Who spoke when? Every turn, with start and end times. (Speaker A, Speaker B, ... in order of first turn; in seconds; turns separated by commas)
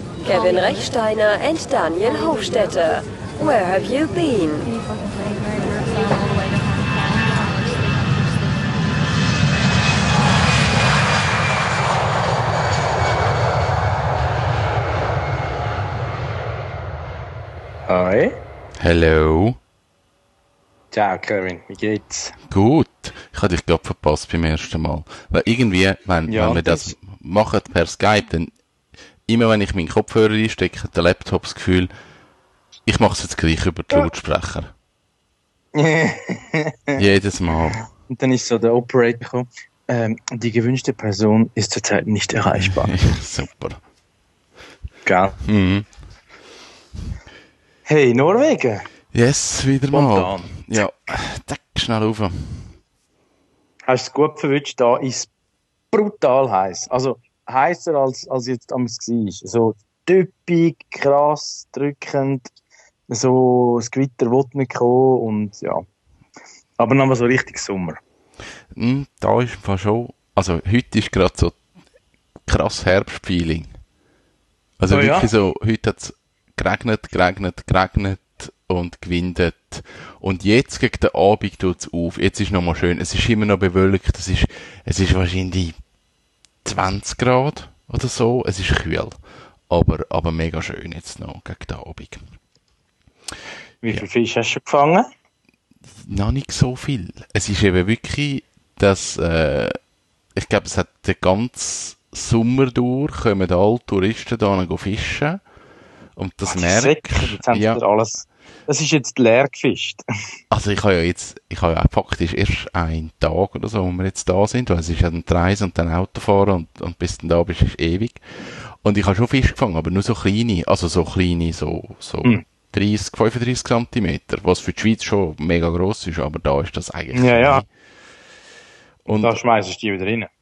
Speaker A: 0.2-4.7, Speaker B: 17.9-18.4, Speaker C: 18.8-19.6, Speaker B: 20.9-22.4, Speaker C: 22.5-28.5, Speaker B: 26.3-27.0, Speaker C: 29.3-31.9, Speaker C: 32.9-34.7, Speaker B: 35.7-37.0, Speaker C: 37.0-37.8, Speaker B: 38.0-42.9, Speaker C: 42.6-43.8, Speaker B: 45.0-45.4, Speaker C: 45.4-45.9, Speaker B: 47.9-48.9, Speaker C: 49.1-52.7, Speaker B: 49.9-50.8, Speaker B: 53.9-55.3, Speaker B: 55.9-62.5, Speaker B: 63.1-65.8, Speaker B: 66.8-68.0, Speaker C: 68.7-71.6, Speaker C: 72.5-73.7, Speaker C: 74.8-85.8, Speaker B: 74.9-75.3, Speaker C: 86.7-89.2, Speaker C: 89.7-92.2, Speaker B: 93.8-95.1, Speaker C: 96.0-99.8, Speaker C: 100.3-105.4, Speaker C: 106.2-107.8, Speaker B: 106.5-110.0, Speaker C: 110.5-127.7, Speaker B: 127.1-127.6, Speaker C: 129.1-129.4, Speaker B: 129.2-130.3